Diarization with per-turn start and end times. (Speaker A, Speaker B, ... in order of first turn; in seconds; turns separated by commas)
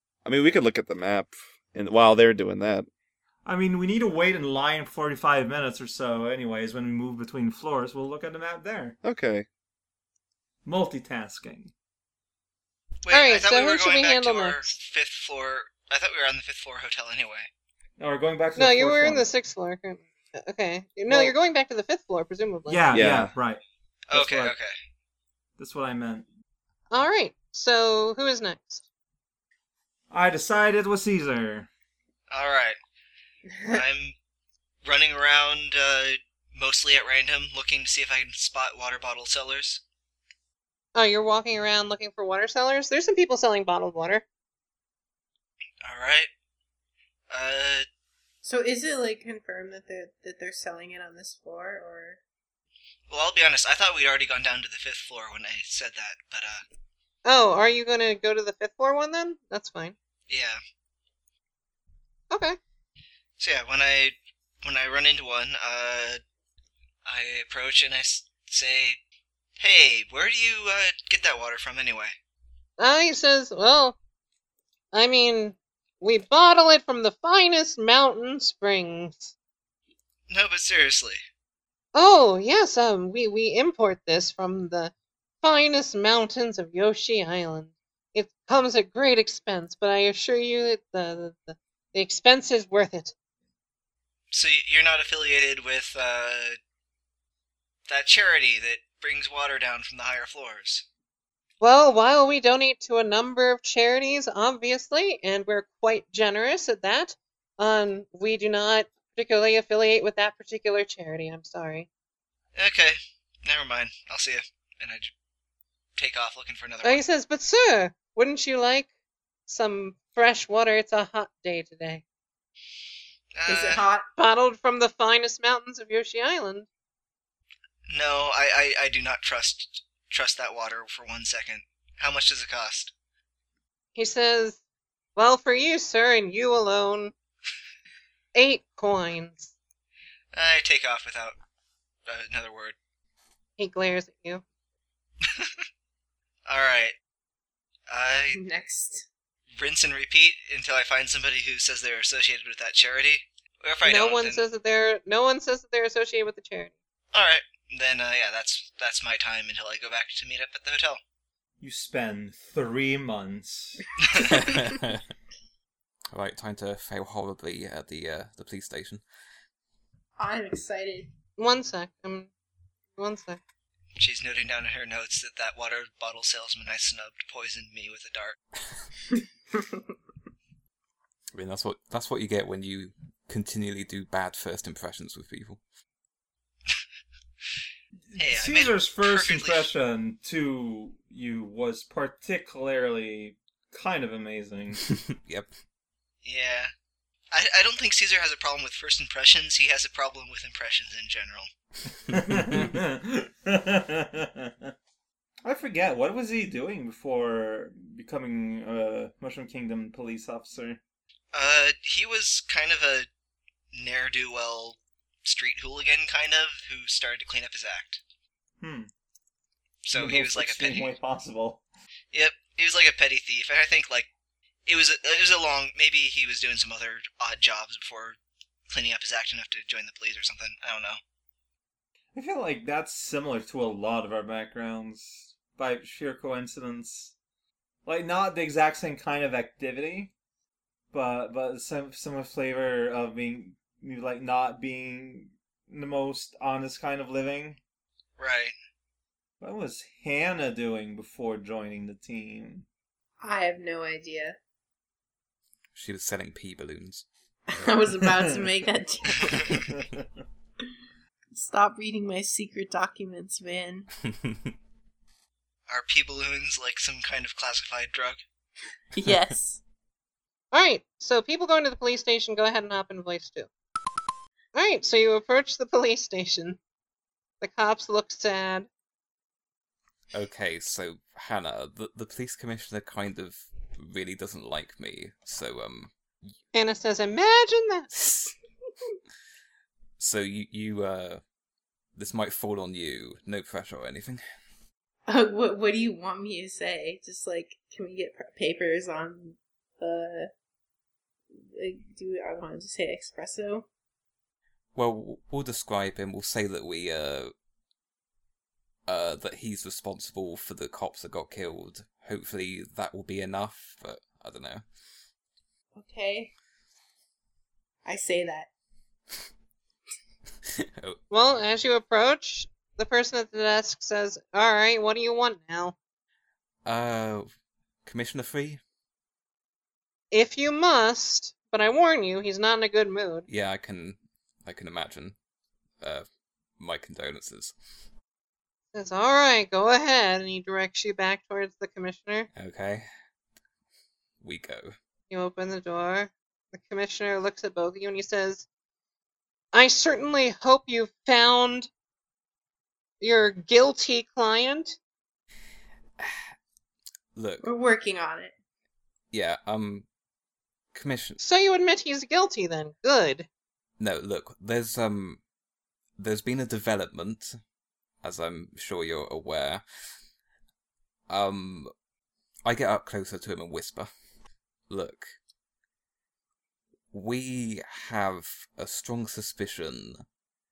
Speaker A: 0.2-2.9, Speaker B: 3.4-8.9, Speaker A: 9.0-9.4, Speaker B: 10.6-11.7, Speaker C: 13.0-17.5, Speaker D: 13.1-14.8, Speaker B: 18.0-19.3, Speaker D: 18.6-22.8, Speaker B: 21.1-21.3, Speaker B: 22.7-24.5, Speaker A: 22.9-23.3, Speaker C: 24.1-24.7, Speaker B: 25.6-26.3, Speaker D: 26.9-28.8, Speaker B: 30.1-31.7, Speaker C: 32.3-32.8, Speaker C: 33.7-34.1, Speaker C: 34.8-39.8, Speaker D: 40.9-44.2, Speaker C: 45.8-46.3, Speaker C: 47.3-47.9, Speaker E: 48.4-52.2, Speaker C: 53.1-56.6, Speaker D: 57.2-60.0, Speaker C: 60.3-60.6, Speaker D: 62.3-62.6, Speaker C: 63.4-66.2, Speaker C: 67.0-69.0, Speaker C: 69.6-72.2, Speaker D: 72.8-74.0, Speaker D: 74.9-79.3, Speaker C: 80.3-81.2, Speaker D: 81.9-93.1, Speaker C: 94.3-96.6, Speaker C: 97.9-100.8, Speaker D: 101.6-111.9, Speaker C: 112.5-115.1, Speaker C: 116.0-117.0, Speaker D: 116.8-118.9, Speaker D: 119.5-122.0, Speaker C: 123.4-123.8, Speaker E: 123.5-124.1, Speaker D: 124.2-126.7, Speaker C: 127.9-132.9, Speaker D: 133.9-134.6, Speaker D: 135.2-137.1, Speaker D: 138.3-139.5, Speaker C: 140.3-141.3, Speaker C: 142.1-142.7, Speaker D: 143.6-144.4, Speaker C: 145.3-145.5, Speaker C: 146.5-146.9, Speaker C: 147.9-148.4, Speaker E: 148.3-149.1, Speaker C: 149.6-154.4, Speaker D: 153.8-156.7, Speaker C: 157.1-161.0, Speaker B: 161.6-163.8, Speaker C: 164.0-164.3, Speaker F: 164.2-165.1, Speaker F: 166.1-169.0, Speaker E: 170.2-171.1, Speaker D: 171.4-172.3, Speaker D: 173.0-173.4, Speaker C: 174.0-178.4, Speaker F: 181.3-185.6, Speaker B: 188.1-194.8, Speaker C: 188.2-189.7, Speaker F: 194.9-195.5, Speaker C: 196.2-196.7, Speaker C: 197.3-201.5, Speaker B: 202.1-204.7, Speaker B: 205.4-210.8, Speaker C: 211.3-213.1, Speaker C: 213.7-218.0, Speaker B: 218.6-218.9, Speaker C: 219.8-220.9, Speaker B: 219.9-221.6, Speaker C: 222.1-224.1, Speaker C: 224.7-228.2, Speaker C: 228.7-231.0, Speaker B: 232.1-237.1, Speaker B: 237.8-240.1, Speaker B: 240.9-247.6, Speaker C: 248.2-248.5, Speaker B: 249.4-252.7, Speaker E: 253.2-254.4, Speaker F: 255.7-257.1, Speaker E: 257.5-259.7, Speaker B: 258.1-258.5, Speaker B: 259.5-260.0, Speaker E: 261.3-263.9, Speaker F: 264.1-264.5, Speaker C: 265.7-268.2, Speaker E: 268.9-269.6, Speaker D: 270.5-273.5, Speaker D: 274.5-276.6, Speaker D: 277.4-278.7, Speaker F: 280.1-286.3, Speaker D: 286.5-287.9, Speaker F: 290.0-291.2, Speaker F: 291.9-294.2, Speaker E: 295.1-300.3, Speaker E: 301.5-303.7, Speaker F: 304.7-307.3, Speaker F: 308.9-314.6, Speaker E: 315.7-316.3, Speaker E: 317.8-318.5, Speaker F: 320.6-321.0, Speaker D: 321.1-325.8, Speaker F: 326.6-327.3, Speaker F: 327.9-328.6, Speaker D: 330.1-333.3, Speaker F: 333.3-335.1, Speaker F: 335.8-336.1, Speaker F: 336.6-337.5, Speaker D: 338.7-342.3, Speaker F: 342.4-342.9, Speaker F: 344.2-344.7, Speaker D: 345.1-348.5, Speaker D: 349.5-351.7, Speaker D: 353.0-354.8, Speaker F: 357.1-357.4, Speaker E: 357.4-358.3, Speaker F: 359.1-359.9, Speaker F: 360.7-361.2, Speaker D: 361.2-363.3, Speaker F: 363.8-365.2, Speaker F: 366.0-367.4, Speaker F: 368.0-369.6, Speaker F: 371.1-371.7, Speaker F: 372.4-373.9, Speaker F: 374.7-375.1, Speaker F: 376.9-380.0